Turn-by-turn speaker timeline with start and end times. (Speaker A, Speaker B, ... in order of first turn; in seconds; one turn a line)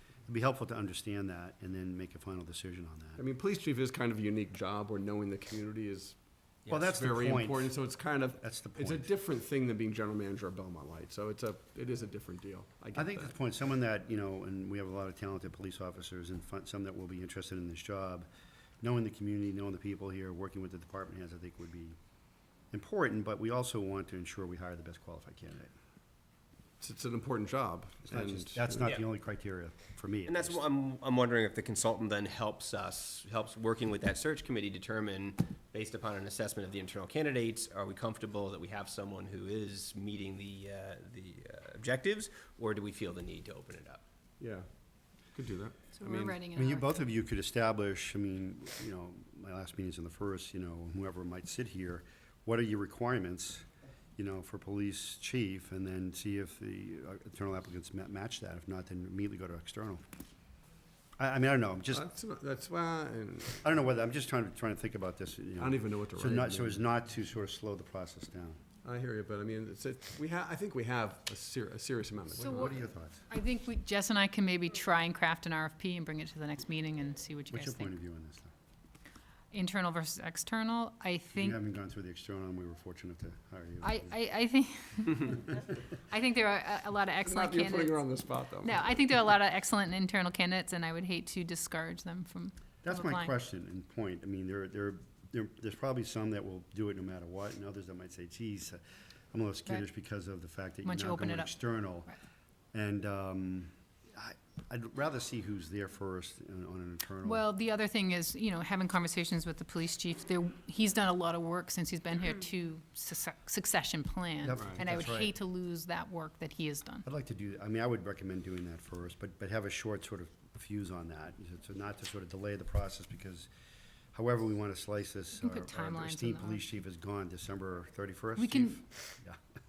Speaker A: 0.3-3.2
Speaker B: 3.2-6.2
Speaker A: 6.7-7.7
Speaker B: 6.8-13.3
Speaker A: 8.4-9.1
Speaker A: 12.9-18.3
Speaker A: 18.8-22.0
Speaker A: 22.7-25.7
Speaker B: 26.8-28.7
Speaker A: 28.1-30.6
Speaker C: 30.3-44.0
Speaker B: 44.4-44.7
Speaker B: 45.3-46.4
Speaker D: 46.0-46.9
Speaker A: 46.5-53.6
Speaker A: 54.2-60.0
Speaker A: 61.2-62.1
Speaker B: 61.9-63.6
Speaker A: 63.6-68.6
Speaker B: 65.6-66.8
Speaker B: 68.8-72.8
Speaker A: 72.4-73.3
Speaker D: 72.4-72.8
Speaker D: 73.3-78.0
Speaker A: 77.5-78.5
Speaker D: 79.5-81.6
Speaker A: 81.4-84.2
Speaker D: 83.8-93.3
Speaker B: 87.2-88.8
Speaker A: 92.8-98.8
Speaker A: 99.3-102.1
Speaker D: 100.8-101.6
Speaker A: 102.7-107.5
Speaker D: 107.2-117.1
Speaker A: 114.4-115.3
Speaker A: 117.0-123.5
Speaker A: 124.1-129.4
Speaker D: 125.4-126.7
Speaker D: 128.4-128.8